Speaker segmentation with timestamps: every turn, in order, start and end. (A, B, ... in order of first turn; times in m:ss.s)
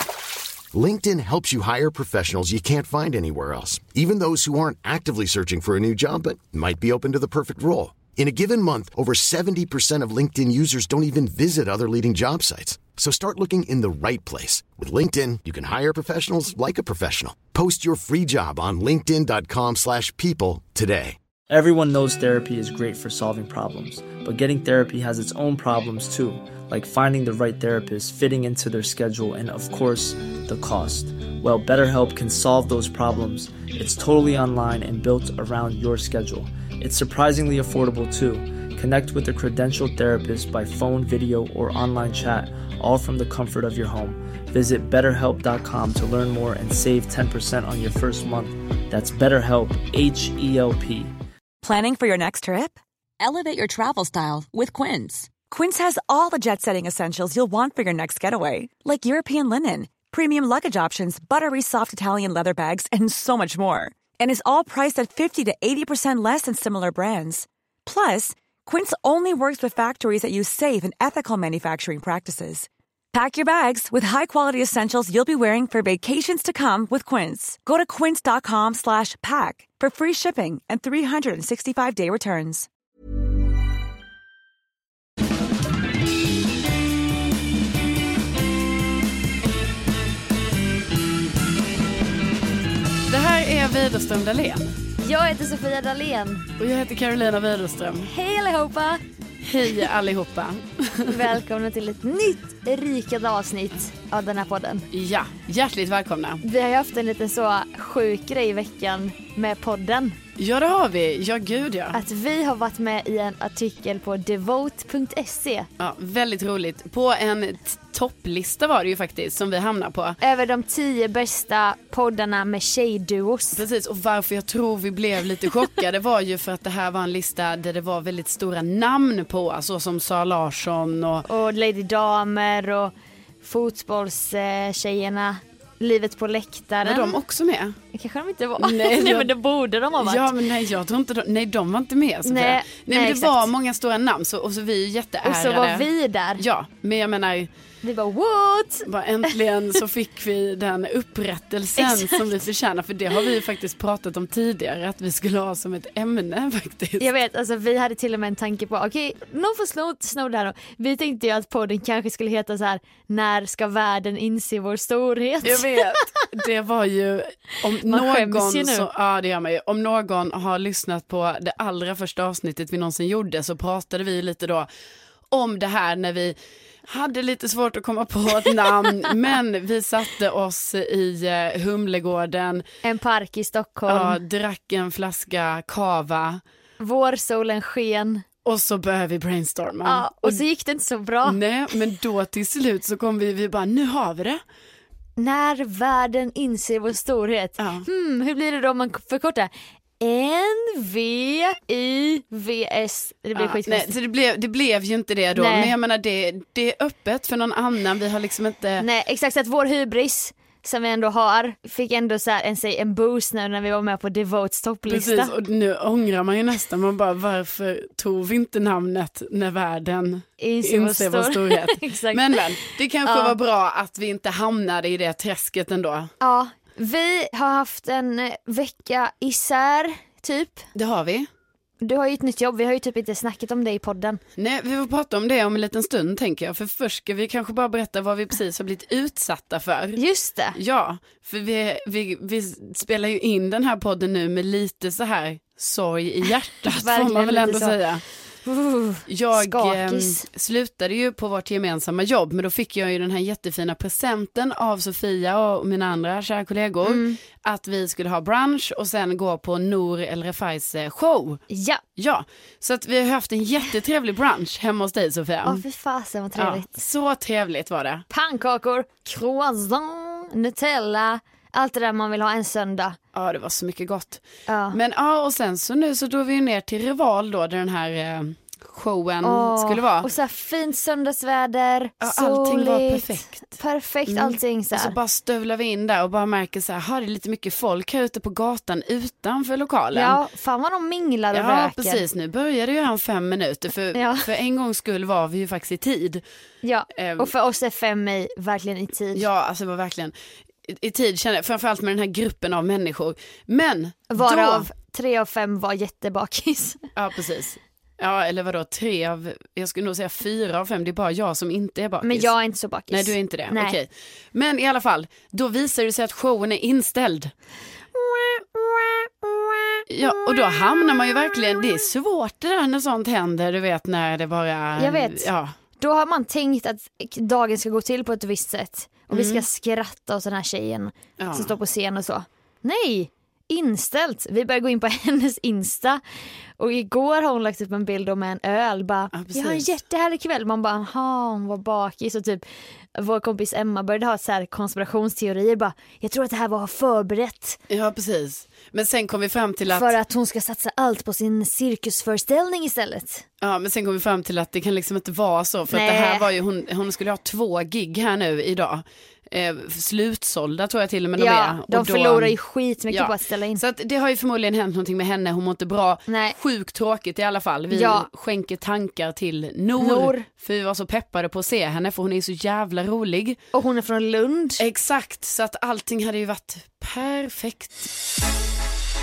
0:00.7-0:21.2 A
0:21.5-0:51.1 B
0:51.6-1:22.7 C
1:33.1-1:34.8 D
1:35.0-1:36.5 E
1:36.6-1:38.1 D
1:38.1-1:39.0 E
1:39.4-1:41.2 D
1:41.1-1:44.9 E
1:44.9-1:46.4 D
1:46.4-1:50.2 E
1:50.4-1:52.0 D
1:51.9-1:55.7 E
1:55.8-2:00.2 D
2:00.2-2:03.6 E
2:03.6-2:11.3 D
2:11.3-2:17.2 E
2:16.8-2:17.8 D
2:17.9-2:20.3 E
2:18.6-2:19.3 D
2:20.0-2:25.9 D
2:22.2-2:23.5 E
2:25.2-2:26.4 E
2:26.4-2:27.5 D
2:27.8-2:28.9 E
2:28.8-2:37.1 D
2:31.8-2:32.3 E
2:37.0-2:46.0 E
2:45.4-2:54.7 D
2:47.8-2:48.9 E
2:55.3-3:02.6 D
3:02.8-3:04.2 E
3:03.9-3:06.4 D
3:06.8-3:08.2 E
3:08.4-3:10.4 D
3:09.8-3:11.4 E
3:11.2-3:14.4 D
3:15.2-3:24.0 E
3:17.6-3:17.9 D
3:23.4-3:28.8 D
3:25.4-3:25.7 E
3:28.8-3:35.3 E
3:34.9-3:46.1 D
3:40.4-3:43.4 E
3:46.2-3:50.7 E
3:50.8-3:51.3 D
3:51.8-3:54.2 E
3:54.4-4:00.0 D
4:00.0-4:00.6 E
4:00.6-4:08.0 D
4:06.7-4:07.8 E
4:08.4-4:10.3 E
4:09.1-4:21.4 D
4:16.8-4:17.2 E
4:21.5-4:21.8 E
4:22.0-4:25.6 D
4:25.4-4:26.7 E
4:26.4-4:28.0 D
4:28.1-4:33.0 E
4:33.1-4:40.1 D
4:34.5-4:34.8 E
4:39.2-4:45.0 E
4:42.0-4:43.4 D
4:44.1-4:50.2 D
4:49.9-4:52.0 E
4:51.3-4:56.2 D
4:53.9-4:54.3 E
4:56.6-4:59.3 E
4:57.0-4:57.3 D
4:59.1-5:00.1 D
5:00.7-5:04.7 D
5:04.1-5:06.8 E
5:07.0-5:12.3 D
5:12.0-5:13.8 E
5:12.9-5:17.3 D
5:18.0-5:21.4 E
5:19.9-5:25.5 D
5:24.8-5:25.3 E
5:25.8-5:36.0 E
5:29.1-5:29.4 D
5:31.2-5:31.5 D
5:36.6-5:42.4 E
5:39.1-5:39.7 D
5:43.0-5:47.6 E
5:47.7-5:49.9 D
5:49.7-5:53.2 E
5:53.4-6:02.4 D
5:55.7-5:56.3 E
6:01.2-6:03.6 E
6:02.9-6:13.4 D
6:06.1-6:06.4 E
6:07.7-6:08.1 E
6:09.8-6:10.3 E
6:13.5-6:14.6 E
6:14.6-6:17.9 D